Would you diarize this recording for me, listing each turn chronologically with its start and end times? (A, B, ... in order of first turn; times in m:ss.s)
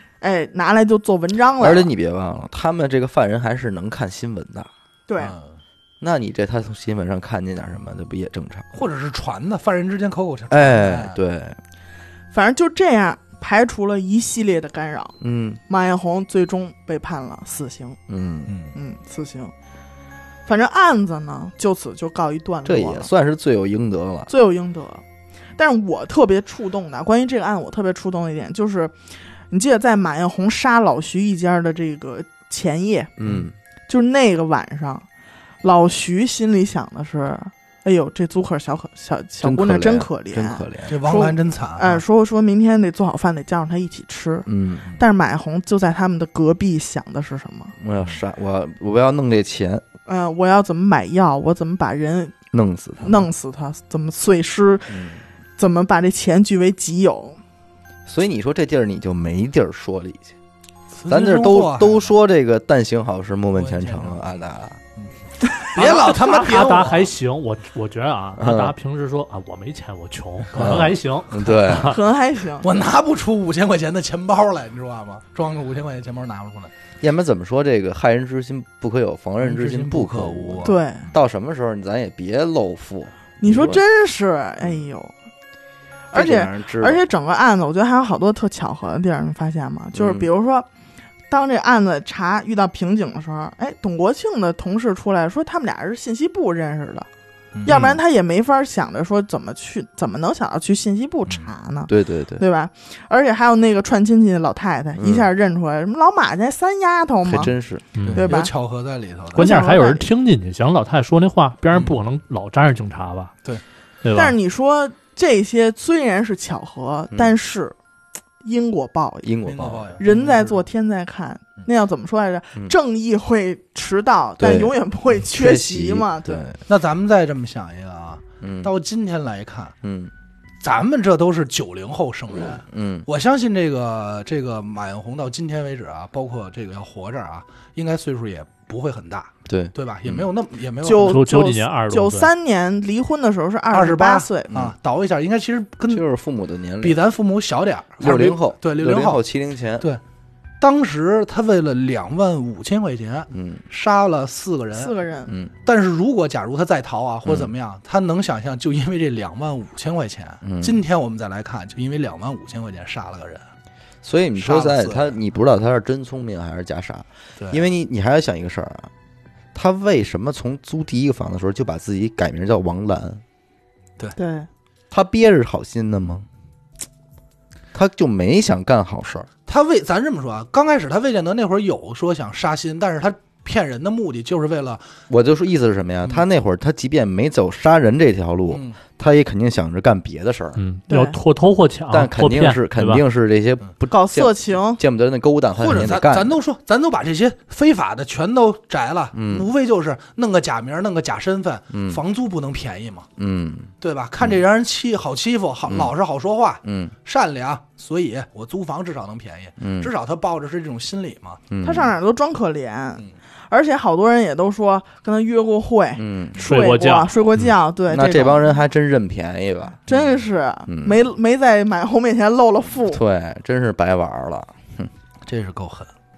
0:00.2-0:01.9 A
0:01.6-0:04.7 B
0:05.1-0:05.4 A
0:05.2-0:05.6 C
0:06.0-0:08.7 B
0:08.7-0:11.2 C
0:10.5-0:11.6 B
0:12.3-0:15.1 A
0:15.2-0:15.6 B
0:15.7-0:18.0 A
0:18.1-0:18.5 B
0:18.5-0:18.8 C
0:18.7-0:19.5 A
0:20.4-0:23.1 A
0:22.6-0:24.3 B
0:24.3-0:25.0 A
0:25.5-0:28.9 A
0:29.5-0:33.1 A
0:33.2-0:33.5 B
0:33.9-0:35.0 A
0:35.6-0:47.8 A
0:39.4-0:41.0 B
0:40.8-0:42.0 C
0:44.4-0:44.9 B
0:47.8-0:49.8 B
0:50.0-0:52.3 A
0:52.5-0:53.2 B
0:53.0-0:55.0 A
0:54.9-0:55.2 B
0:55.6-0:57.4 A
0:58.0-1:00.3 B
1:00.9-1:02.1 C
1:01.1-1:04.8 B
1:03.5-1:04.2 C
1:05.5-1:05.8 A
1:05.7-1:07.1 C
1:05.7-1:12.0 D
1:08.4-1:08.7 B
1:10.5-1:11.0 C
1:10.6-1:12.0 B
1:11.7-1:12.7 A
1:12.6-1:16.7 C
1:17.0-1:23.8 B
1:19.4-1:21.1 C
1:20.6-1:21.0 A
1:23.4-1:25.1 A
1:26.1-1:30.7 A
1:26.1-1:27.0 B
1:29.9-1:30.2 B
1:31.3-1:37.1 A
1:37.5-1:38.0 C
1:37.6-1:47.5 A
1:41.9-1:42.4 B
1:45.0-1:45.3 B
1:47.2-1:47.9 B
1:47.9-1:48.3 D
1:48.0-1:49.5 C
1:48.1-1:48.5 A
1:49.3-1:53.3 D
1:49.4-1:50.1 A
1:54.0-1:54.4 D
1:54.1-1:57.7 A
1:58.4-1:59.3 A
1:59.2-2:00.0 B
1:59.4-2:00.6 C
2:00.0-2:06.4 A
2:04.4-2:06.6 B
2:06.7-2:09.7 C
2:08.4-2:08.7 B
2:09.8-2:10.1 B
2:10.6-2:21.2 C
2:12.7-2:13.1 B
2:19.5-2:20.3 B
2:20.8-2:24.5 A
2:21.0-2:22.3 D
2:23.7-2:26.0 C
2:25.9-2:27.0 B
2:26.8-2:29.2 C
2:28.0-2:29.8 B
2:30.6-2:34.9 C
2:33.3-2:33.6 B
2:34.7-2:35.4 A
2:35.6-2:43.4 C
2:37.2-2:37.5 B
2:40.4-2:40.8 B
2:44.0-2:48.9 B
2:44.4-2:45.2 C
2:47.4-2:47.6 C
2:49.5-2:53.2 B
2:54.2-2:54.5 A
2:54.9-2:56.2 B
2:57.7-2:59.3 B
2:59.4-3:04.8 C
3:05.1-3:10.6 B
3:08.5-3:08.8 C
3:10.6-3:13.0 D
3:10.9-3:11.2 A
3:11.9-3:16.4 B
3:13.9-3:14.8 A
3:15.6-3:23.1 C
3:19.1-3:19.5 B
3:21.7-3:22.0 B
3:23.2-3:24.4 B
3:23.8-3:31.4 C
3:25.7-3:25.9 B
3:26.6-3:26.9 B
3:29.6-3:29.9 B
3:31.5-3:31.9 B
3:31.6-3:38.6 A
3:36.0-3:36.4 B
3:36.4-3:37.4 D
3:37.9-3:39.8 B
3:39.9-3:43.0 A
3:39.9-3:40.2 C
3:40.7-3:41.0 B
3:42.9-3:44.9 B
3:45.2-3:45.9 C